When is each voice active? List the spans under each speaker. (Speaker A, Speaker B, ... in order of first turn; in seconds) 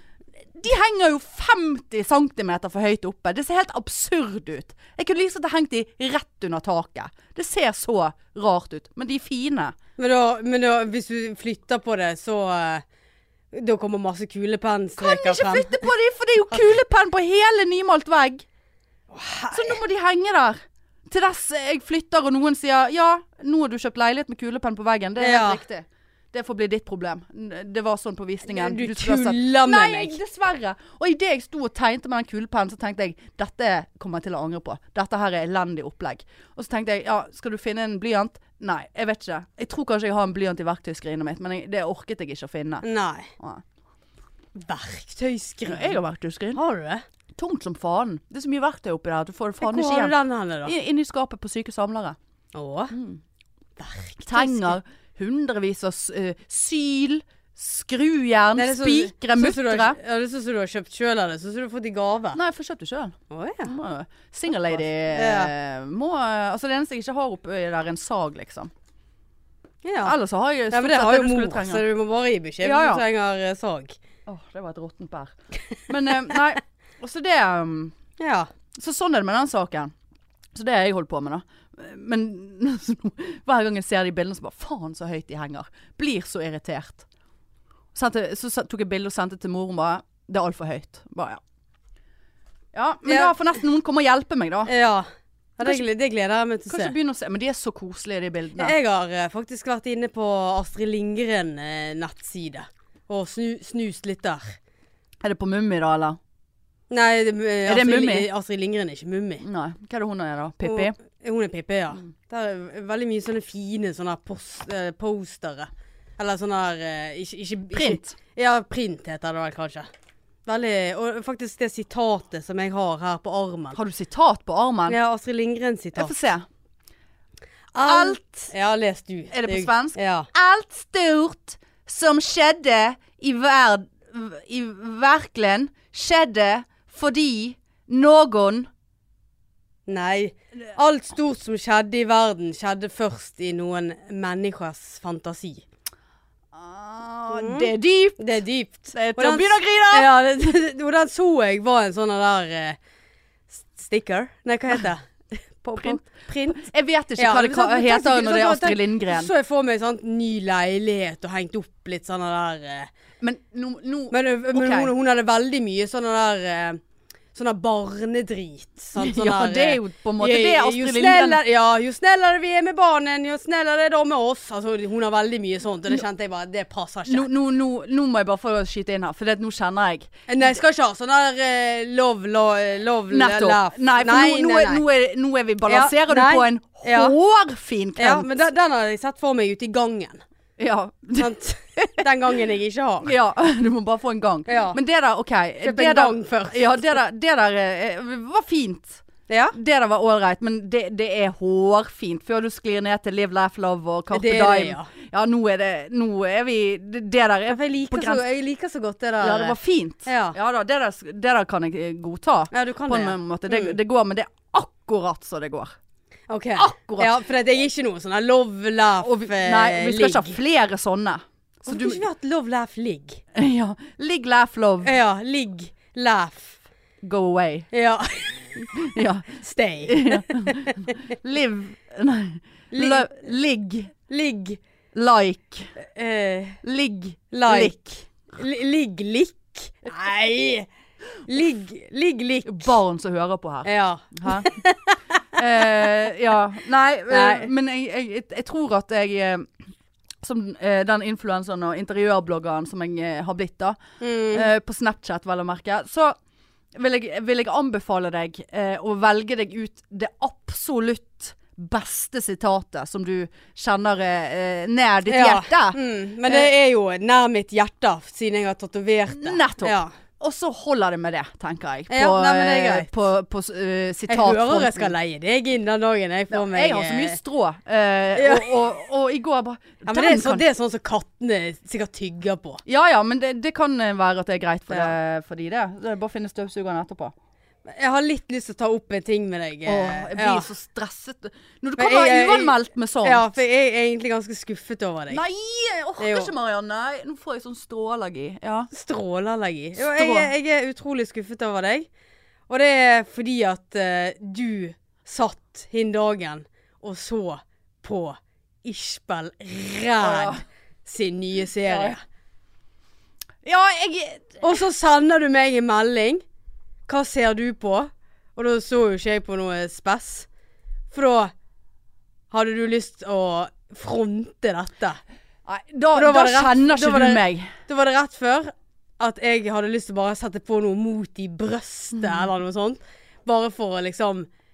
Speaker A: 0.5-9.8, 15.0-18.4, 19.5-42.9, 43.4-43.6, 45.6-46.6, 47.4-52.2, 52.9-53.2, 54.2-60.0, 62.4-68.7, 70.0-71.8, 72.6-73.0, 74.3-75.3, 75.9-78.0, 78.8-79.9, 80.5-87.0, 87.9-91.4, 92.7-94.7, 96.7-98.7, 105.2-106.2, 107.6-108.3, 109.4-111.0, 117.7-118.2, 123.7-125.0, 126.0-126.5, 127.8-128.5, 129.3-138.7, 146.5-148.2, 148.9-150.1, 156.6-159.3, 163.2-164.9, 169.0-171.4, 177.1-180.1, 183.1-188.4, 190.6-192.0, 193.0-208.2, 209.2-215.7, 216.6-217.2, 219.0-222.0, 223.3-224.9, 227.0-227.7, 228.7-233.9, 234.9-235.7, 236.6-238.1, 242.4-244.5, 245.3-249.5, 250.2-253.8, 254.3-256.2, 256.7-266.5, 269.1-274.9, 276.3-280.4, 282.7-287.1, 289.7-293.3, 295.1-298.7, 299.7-300.3, 310.0-310.4, 311.7-312.0, 313.4-314.4, 325.4-327.5
Speaker B: 10.0-12.8, 13.5-15.8, 19.1-19.8, 25.2-25.6, 28.5-30.2, 42.8-43.3, 44.6-46.0, 46.5-47.0, 49.6-50.8, 52.5-52.9, 53.8-54.8, 58.6-62.4, 63.3-63.8, 65.1-65.5, 69.8-70.1, 70.7-74.0, 78.2-78.5, 93.1-93.3, 94.7-95.1, 95.6-96.9, 98.6-104.6, 106.9-109.4, 110.6-119.9, 120.5-123.8, 124.9-126.1, 127.7-130.3, 139.9-145.6, 147.3-152.8, 153.5-162.9, 164.1-166.8, 167.3-177.3, 180.3-184.8, 185.7-187.1, 188.0-190.2, 191.2-193.1, 194.5-194.8, 195.6-196.8, 199.3-199.6, 204.1-204.9, 207.5-210.4, 212.5-213.7, 216.3-220.3, 221.7-223.2, 224.8-226.6, 227.7-228.7, 229.3-231.0, 232.7-233.2, 234.1-234.6, 235.8-236.6, 237.3-237.7, 238.3-240.7, 241.3-242.7, 243.6-245.0, 247.1-247.5, 254.0-254.5, 265.1-269.9, 271.9-272.9, 274.1-277.2, 278.1-278.5, 279.8-282.6, 287.7-290.5, 291.8-295.2, 296.0-296.3, 298.7-301.9, 302.5-312.0, 314.4-316.2, 316.9-320.3, 320.9-321.3, 322.3-325.0, 325.9-334.3